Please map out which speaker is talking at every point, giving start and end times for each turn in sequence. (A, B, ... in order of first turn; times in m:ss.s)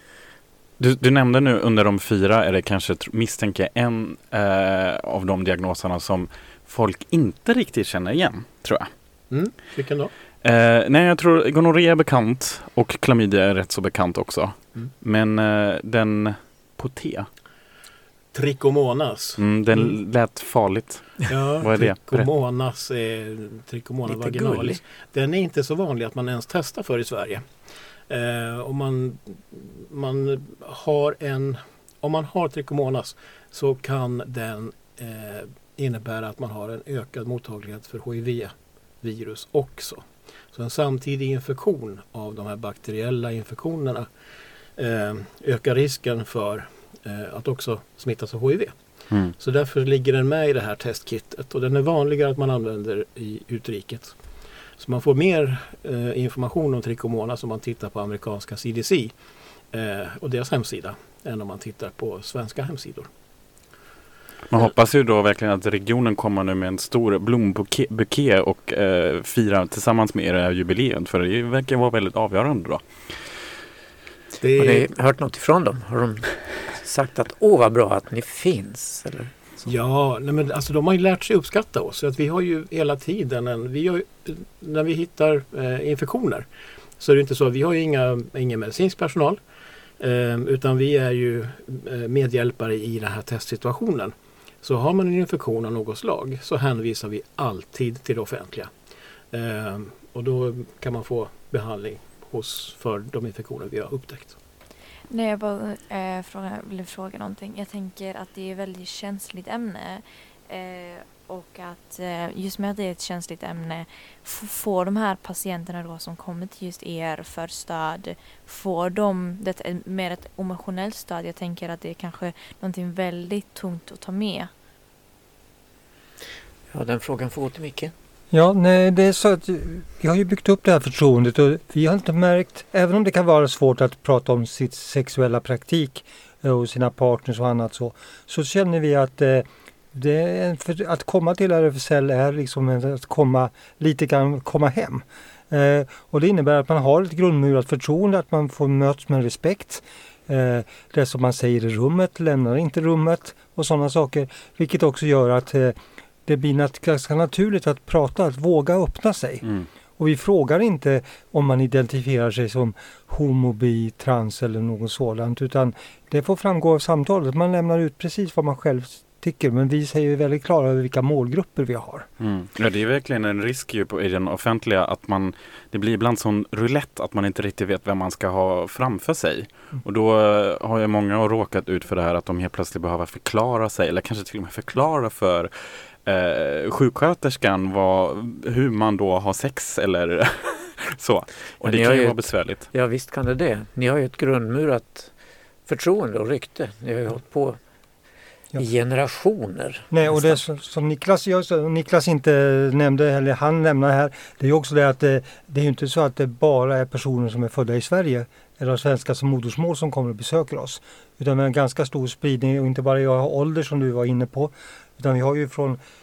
0:00.8-0:08.9 A
0:09.3-0:10.1 B
0:10.4-0:17.3 A
0:18.3-0:20.0 B
0:19.4-0:22.3 A
0:21.3-0:27.5 B
0:24.1-0:24.8 C
0:28.1-0:44.1 B
0:44.8-0:48.7 B
0:49.4-0:54.2 B
0:54.8-0:59.2 B
0:59.7-1:03.1 B
1:04.5-1:13.1 A
1:14.4-1:14.9 B
1:14.6-1:19.4 C
1:19.6-1:26.5 B
1:27.0-1:29.4 B
1:30.0-1:38.7 B
1:39.3-1:44.4 B
1:45.1-2:04.5 D
2:06.7-2:07.9 C
2:08.3-2:39.4 E
2:40.0-2:52.1 E
2:52.2-3:05.5 A
3:06.0-3:12.6 A
3:11.6-3:15.1 C
3:15.7-3:17.6 C
3:18.6-3:20.4 C
3:19.9-3:35.8 E